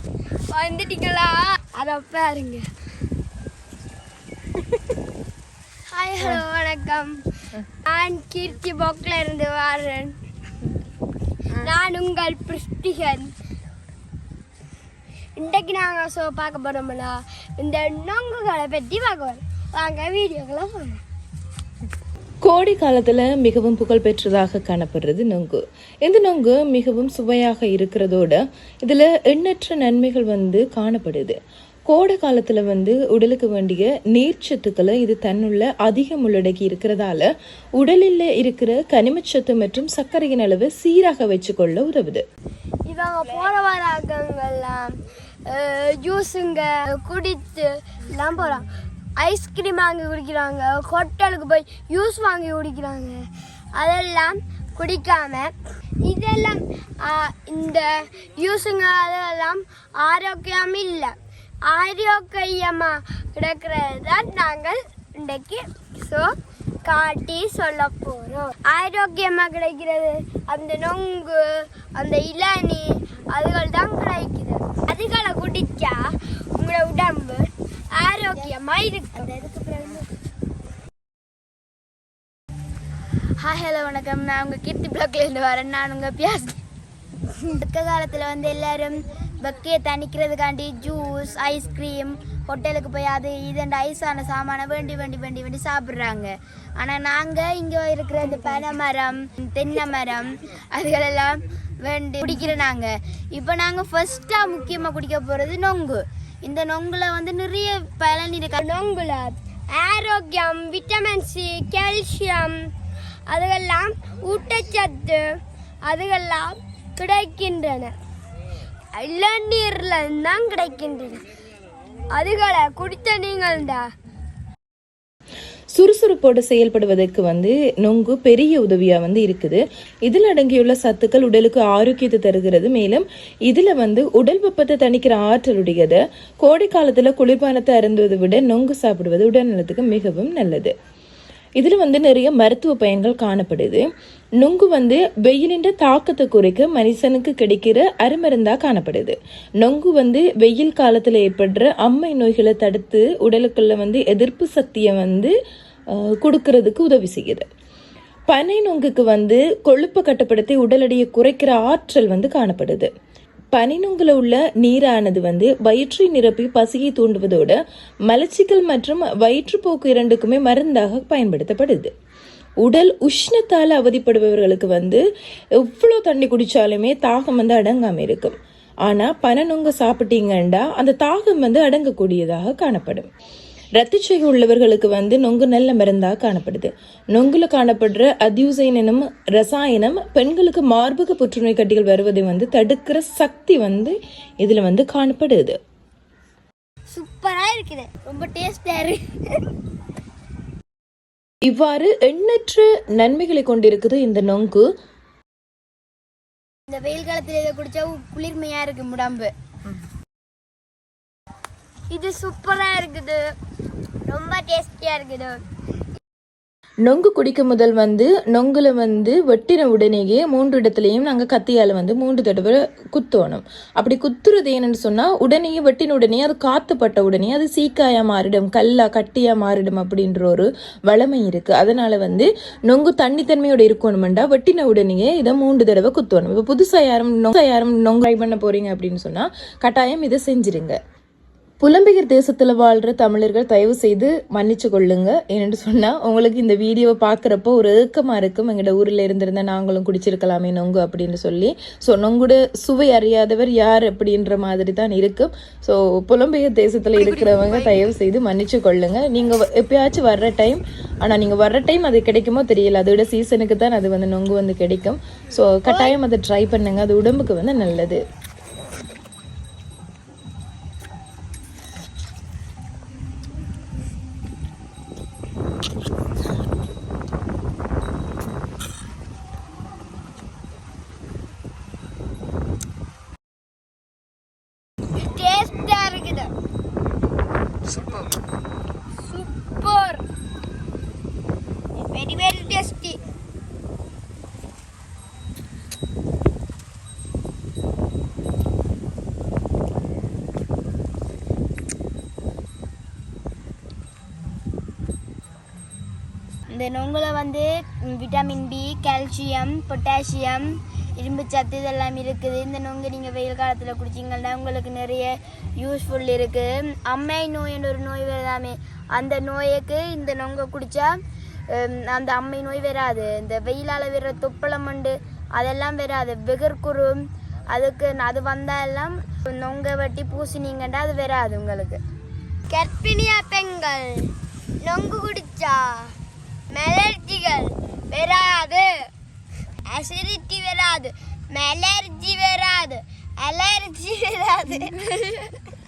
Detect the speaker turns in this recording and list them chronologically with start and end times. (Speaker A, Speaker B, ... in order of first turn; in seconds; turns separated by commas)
Speaker A: 0.5-2.6, Speaker A: 5.9-7.1, Speaker A: 7.8-10.1, Speaker A: 11.5-13.3, Speaker A: 15.4-21.0, Speaker B: 22.4-31.4, Speaker B: 31.9-42.2, Speaker A: 42.9-44.9, Speaker A: 45.5-48.6, Speaker A: 49.2-61.1, Speaker A: 61.7-66.3, Speaker A: 66.8-79.3, Speaker C: 79.1-80.0, Speaker C: 83.4-86.5, Speaker C: 87.4-108.6, Speaker A: 108.5-112.6, Speaker A: 113.3-117.9, Speaker A: 118.9-121.2, Speaker A: 122.1-123.8, Speaker B: 125.7-140.7, Speaker B: 141.6-143.9, Speaker B: 144.4-155.3, Speaker B: 155.9-157.5, Speaker B: 158.3-162.9, Speaker B: 163.5-171.9, Speaker B: 172.6-175.0, Speaker B: 175.6-183.1, Speaker B: 183.8-195.6, Speaker A: 196.9-197.9, Speaker C: 198.0-199.0, Speaker B: 201.4-204.7, Speaker C: 206.7-209.3, Speaker A: 211.9-213.2, Speaker A: 214.1-215.4, Speaker B: 216.8-240.8, Speaker B: 241.6-268.0, Speaker A: 285.0-286.3, Speaker A: 289.1-290.0, Speaker A: 291.9-293.0, Speaker C: 306.5-320.9, Speaker C: 321.5-331.8, Speaker A: 332.5-335.9, Speaker A: 336.5-338.9, Speaker A: 339.6-345.3